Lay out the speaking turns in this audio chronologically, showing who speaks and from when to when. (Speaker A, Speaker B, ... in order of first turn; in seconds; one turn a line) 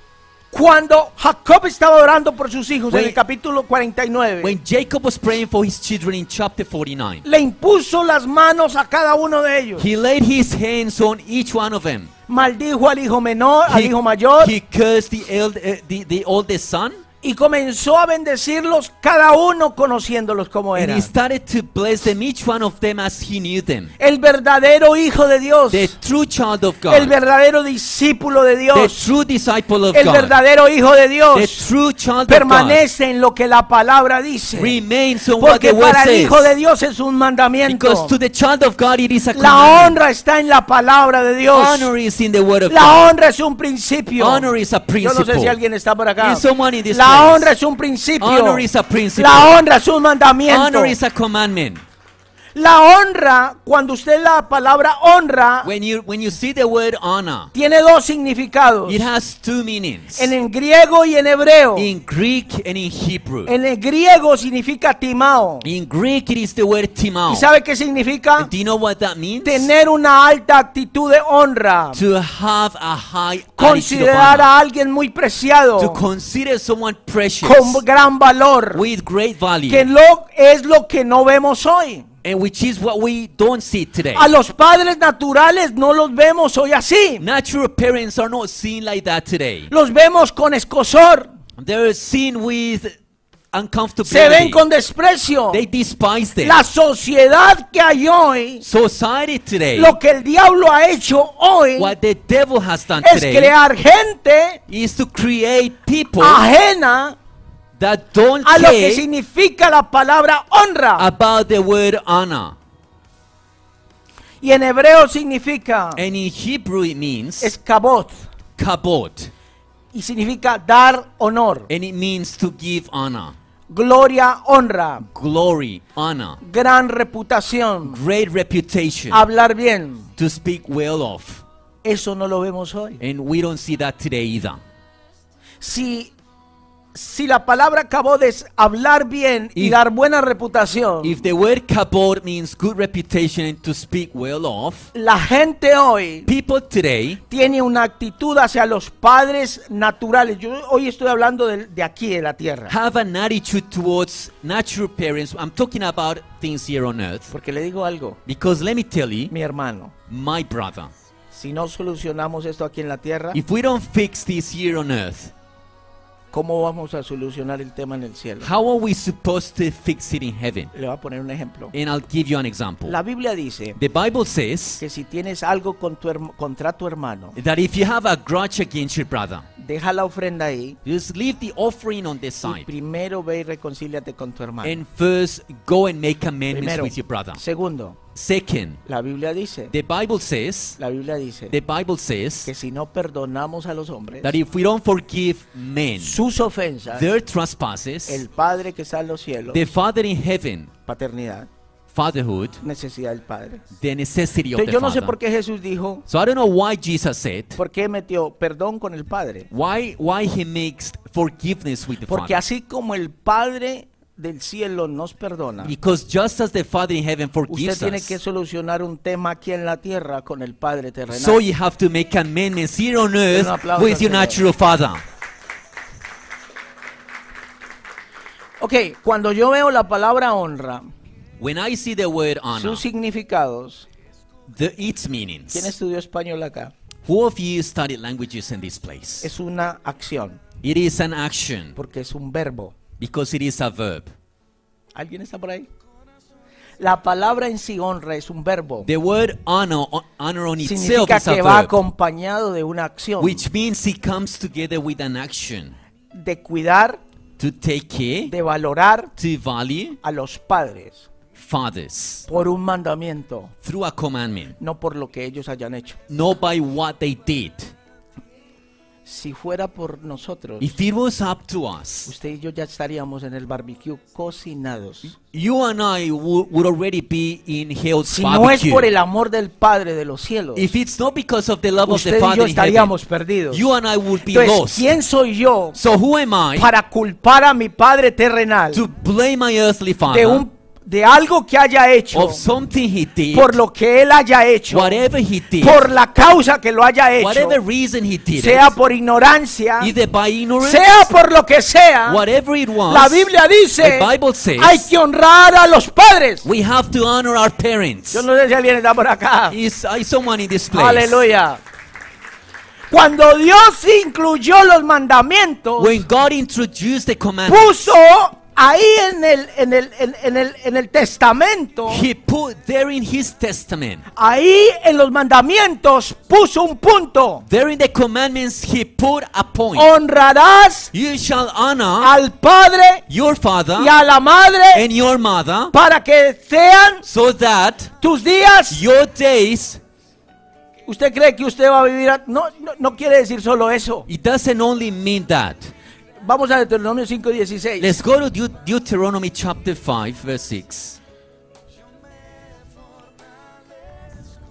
Speaker A: 0.5-4.5
Speaker B: 2.9-3.2
Speaker B: 4.4-7.2
Speaker A: 7.2-9.9
Speaker B: 9.8-12.1
Speaker A: 12.3-14.5
Speaker B: 13.7-17.0
Speaker A: 17.2-21.1
Speaker B: 20.8-23.9
Speaker A: 24.0-25.9
Speaker B: 25.7-27.1
Speaker A: 26.9-29.0
Speaker B: 28.7-30.4
Speaker A: 29.9-31.6
Speaker B: 31.3-32.8
Speaker A: 32.3-34.8
Speaker B: 34.5-36.5
Speaker A: 35.4-38.1
Speaker B: 37.7-40.0
Speaker A: 39.3-41.9
Speaker B: 41.5-43.1
Speaker A: 42.7-44.5
Speaker B: 44.2-45.6
Speaker A: 45.0-51.0
Speaker B: 46.2-47.5
Speaker B: 48.2-49.5
Speaker B: 50.5-51.8
Speaker A: 52.5-55.7
Speaker B: 55.6-57.5
Speaker A: 57.5-59.1
Speaker B: 58.9-60.3
Speaker A: 60.1-61.9
Speaker B: 61.7-63.5
Speaker A: 63.5-65.7
Speaker B: 65.6-67.5
Speaker A: 67.3-68.5
Speaker B: 68.4-69.7
Speaker A: 69.4-72.0
Speaker B: 71.9-74.5
Speaker A: 73.6-76.0
Speaker B: 75.8-77.8
Speaker A: 77.4-78.8
Speaker B: 78.7-79.9
Speaker A: 79.7-82.1
Speaker B: 82.2-84.3
Speaker A: 84.1-87.2
Speaker B: 87.2-89.7
Speaker A: 89.7-91.3
Speaker B: 91.6-92.9
Speaker B: 93.5-94.6
Speaker A: 94.0-95.6
Speaker B: 95.5-96.6
Speaker A: 96.4-98.6
Speaker B: 98.6-100.0
Speaker A: 99.8-101.9
Speaker B: 101.8-103.5
Speaker A: 103.0-104.6
Speaker B: 104.7-106.4
Speaker A: 106.2-107.2
Speaker B: 107.8-109.0
Speaker A: 108.4-111.0
Speaker B: 111.0-112.5
Speaker A: 114.4-116.0
Speaker B: 116.0-117.5
Speaker A: 117.4-118.2
Speaker B: 118.6-119.3
Speaker A: 119.9-121.7
Speaker B: 121.7-123.3
Speaker A: 123.7-125.0
Speaker B: 125.1-126.4
Speaker A: 126.4-128.0
Speaker B: 127.8-129.2
Speaker A: 129.1-130.1
Speaker B: 130.2-131.4
Speaker A: 131.8-133.0
Speaker B: 133.0-134.6
Speaker A: 135.6-136.1
Speaker A: 136.9-141.2
Speaker B: 141.0-144.9
Speaker A: 144.9-146.3
Speaker B: 146.3-147.2
Speaker A: 147.3-152.7
Speaker B: 152.7-157.3
Speaker A: 157.3-158.2
Speaker B: 158.2-159.3
Speaker A: 159.3-159.9
Speaker B: 160.1-160.9
Speaker A: 161.3-163.4
Speaker B: 163.3-165.3
Speaker A: 166.3-168.5
Speaker B: 168.4-170.7
Speaker A: 170.7-171.7
Speaker B: 171.7-173.0
Speaker A: 172.8-173.8
Speaker B: 173.7-174.8
Speaker A: 174.8-177.4
Speaker B: 177.3-179.5
Speaker A: 179.6-180.8
Speaker B: 180.8-182.7
Speaker A: 182.4-184.8
Speaker B: 184.6-187.4
Speaker A: 186.5-188.0
Speaker B: 188.1-188.8
Speaker A: 188.9-189.7
Speaker B: 189.7-190.8
Speaker A: 190.8-191.5
Speaker B: 191.5-192.5
Speaker A: 192.4-194.3
Speaker B: 194.2-196.2
Speaker A: 196.0-197.1
Speaker B: 196.9-198.2
Speaker A: 198.1-199.7
Speaker B: 199.5-200.7
Speaker A: 200.9-201.5
Speaker B: 201.9-202.6
Speaker A: 202.6-203.6
Speaker B: 203.8-205.2
Speaker A: 204.5-206.1
Speaker B: 206.1-207.6
Speaker A: 207.6-209.5
Speaker B: 209.5-212.4
Speaker A: 212.1-215.7
Speaker B: 215.6-218.2
Speaker A: 217.5-221.4
Speaker B: 221.1-225.0
Speaker A: 223.3-224.4
Speaker A: 228.6-230.8
Speaker B: 231.4-232.8
Speaker A: 232.5-233.9
Speaker B: 234.5-235.7
Speaker A: 235.5-236.7
Speaker B: 237.0-239.3
Speaker A: 239.2-240.4
Speaker B: 240.6-241.8
Speaker A: 241.7-242.8
Speaker B: 243.0-244.1
Speaker A: 244.9-245.7
Speaker A: 246.8-248.9
Speaker B: 248.8-251.8
Speaker A: 250.6-253.4
Speaker B: 253.2-255.8
Speaker A: 256.1-257.0
Speaker B: 257.4-258.3
Speaker A: 258.3-259.1
Speaker B: 259.2-260.0
Speaker A: 260.0-261.1
Speaker B: 261.3-262.2
Speaker A: 262.3-263.5
Speaker B: 263.6-264.6
Speaker A: 264.6-266.0
Speaker B: 266.1-267.7
Speaker A: 269.1-270.7
Speaker B: 270.6-272.1
Speaker A: 272.1-275.1
Speaker B: 275.1-278.9
Speaker A: 278.1-280.7
Speaker B: 280.6-282.9
Speaker A: 281.8-283.7
Speaker B: 283.5-284.9
Speaker A: 284.3-285.8
Speaker B: 285.7-286.7
Speaker A: 286.6-288.9
Speaker B: 288.7-290.4
Speaker A: 290.1-292.4
Speaker B: 292.1-293.6
Speaker A: 293.3-295.0
Speaker B: 294.7-295.9
Speaker A: 295.6-297.6
Speaker B: 297.2-298.7
Speaker A: 298.4-299.9
Speaker B: 299.8-300.8
Speaker A: 300.6-302.2
Speaker B: 302.1-304.9
Speaker A: 302.9-306.5
Speaker B: 306.4-308.2
Speaker A: 308.1-309.6
Speaker B: 309.5-311.3
Speaker A: 310.7-311.6
Speaker A: 312.9-316.0
Speaker B: 315.8-317.9
Speaker A: 317.5-322.0
Speaker B: 321.9-324.0
Speaker A: 324.1-327.4
Speaker B: 327.5-329.9
Speaker A: 329.7-330.9
Speaker B: 330.9-332.1
Speaker A: 332.0-333.0
Speaker B: 333.1-333.9
Speaker A: 333.8-334.9
Speaker B: 334.7-335.7
Speaker A: 335.7-337.0
Speaker B: 337.0-337.9
Speaker A: 338.0-338.8
Speaker B: 338.7-339.8
Speaker A: 340.9-344.1
Speaker B: 344.1-345.7
Speaker A: 346.2-348.0
Speaker B: 347.8-351.0